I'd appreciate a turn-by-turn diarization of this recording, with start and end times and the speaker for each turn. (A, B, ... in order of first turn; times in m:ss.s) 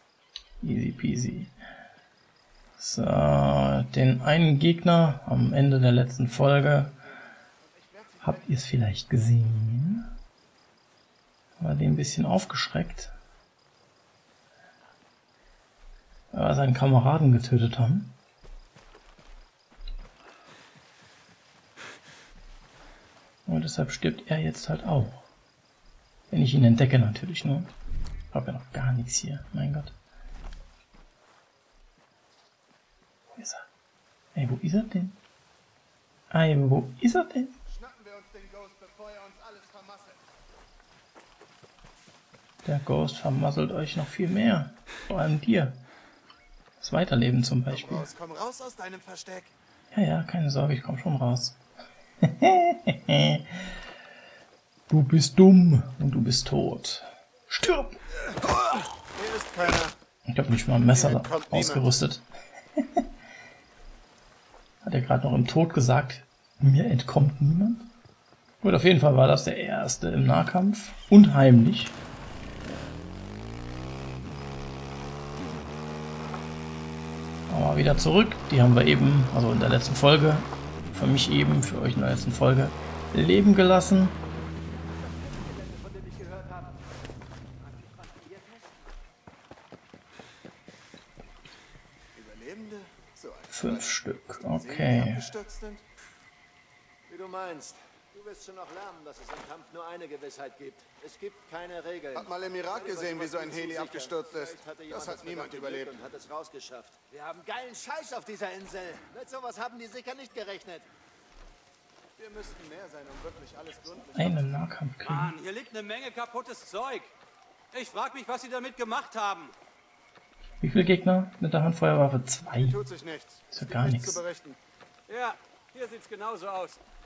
0:00.6-0:01.5 A
0:02.8-0:07.0 A
0:07.6-0:08.5 B
0:08.2-0:10.1 A
0:11.6-0:13.1 A
0:16.3-0:18.2 A
0:23.5-0:25.2 A
0:26.3-0:27.7 A
0:28.3-0:30.0 A
0:33.3-0:33.7 A
0:34.3-0:35.2 A
0:36.3-0:37.6 A
0:37.7-0:40.2 B
0:42.6-0:45.8 A
0:46.8-0:48.1 A
0:47.7-0:49.5 B
0:49.9-0:51.6 A
0:52.2-0:53.7 A
0:54.9-0:58.0 A
0:58.9-0:59.9 B
1:00.3-1:02.2 A
1:00.9-1:01.8 B
1:04.8-1:07.9 A
1:08.6-1:11.9 A
1:17.5-1:24.2 A
1:25.2-1:26.6 C
1:28.3-1:28.7 C
1:32.1-1:33.9 B
1:33.5-1:35.3 A
1:34.4-1:35.8 B
1:37.1-1:50.9 C
1:42.1-1:46.0 B
1:52.2-1:54.5 B
1:54.1-1:55.3 A
1:55.0-1:57.1 D
1:57.7-1:59.5 D
2:00.6-2:02.8 A
2:02.5-2:04.6 B
2:03.5-2:04.2 A
2:05.1-2:06.8 D